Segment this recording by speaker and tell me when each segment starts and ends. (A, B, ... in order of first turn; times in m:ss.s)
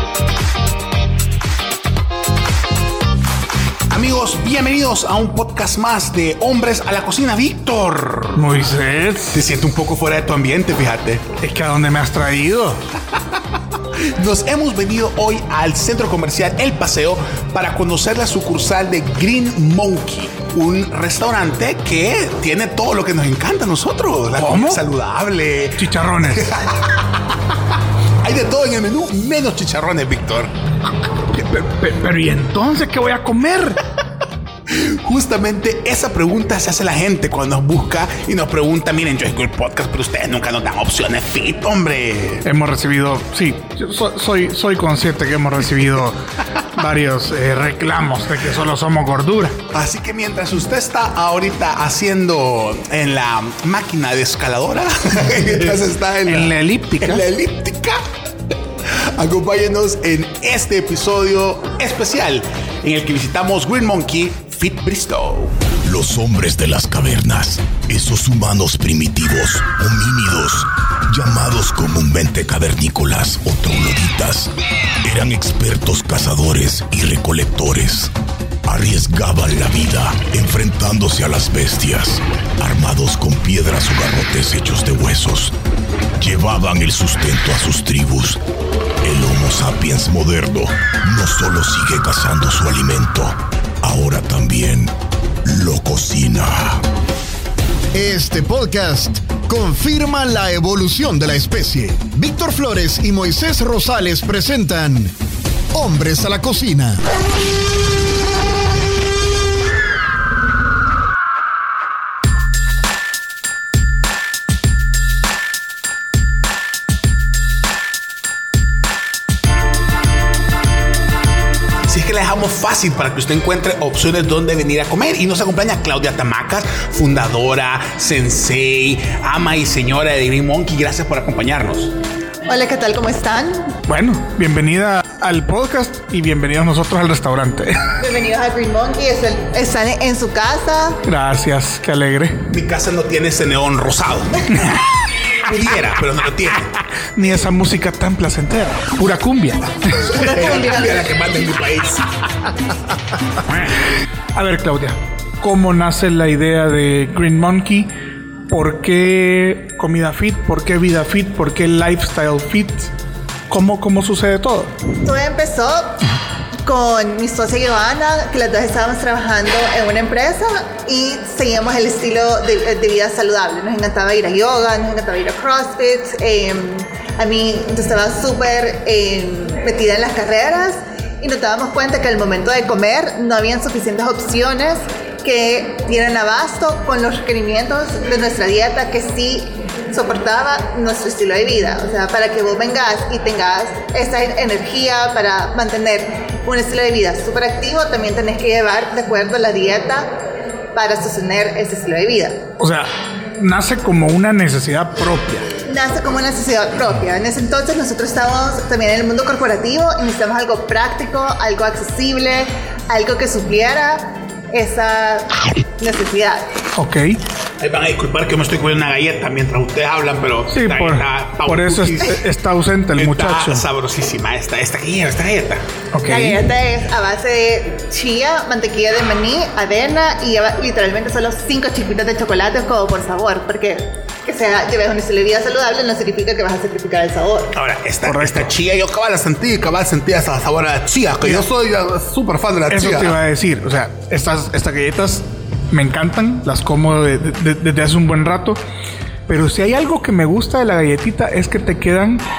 0:03.9-0:08.4 A
0:08.4-0:09.4 B
0:09.3-0:11.3 A
0:11.4-0:12.8 B
0:14.2-0:27.0 A
0:24.3-0:24.8 B
0:25.8-0:26.5 B
0:28.2-0:30.5 A
0:31.3-0:33.8 B
0:34.7-0:42.4 A
0:42.4-0:46.2 B
0:46.7-0:49.6 B
0:49.7-0:58.0 A
0:56.3-0:57.3 B
0:59.2-1:05.6 A
1:05.9-1:14.5 C
1:15.0-1:18.1 C
1:18.7-1:25.5 C
1:26.2-1:28.4 C
1:29.0-1:33.3 C
1:33.8-1:34.9 C
1:35.6-1:36.8 C
1:37.9-1:45.1 D
1:45.7-1:47.0 D
2:01.9-2:11.9 A
2:12.5-2:13.7 E
2:13.9-2:17.9 B
2:18.0-2:21.0 E
2:21.0-2:22.4 B
2:22.5-2:24.4 A
2:25.4-2:26.7 A
2:27.2-2:30.1 B
2:30.1-2:32.1 A
2:30.1-2:31.0 E
2:34.4-2:37.9 B
2:38.5-2:42.9 B
2:43.5-2:44.7 B
2:45.0-2:46.0 E
2:46.7-3:20.1 E
3:20.7-3:22.4 E
3:22.6-3:25.5 B
3:25.7-3:36.4 E
3:36.8-3:37.2 B
3:37.6-3:42.2 A
3:40.5-3:43.6 B
3:43.0-3:45.6 A
3:45.9-3:46.4 B
3:46.0-3:57.5 E
3:57.5-4:03.2 A
3:58.1-3:58.5 B
4:02.7-4:08.6 B
4:09.3-4:12.2 B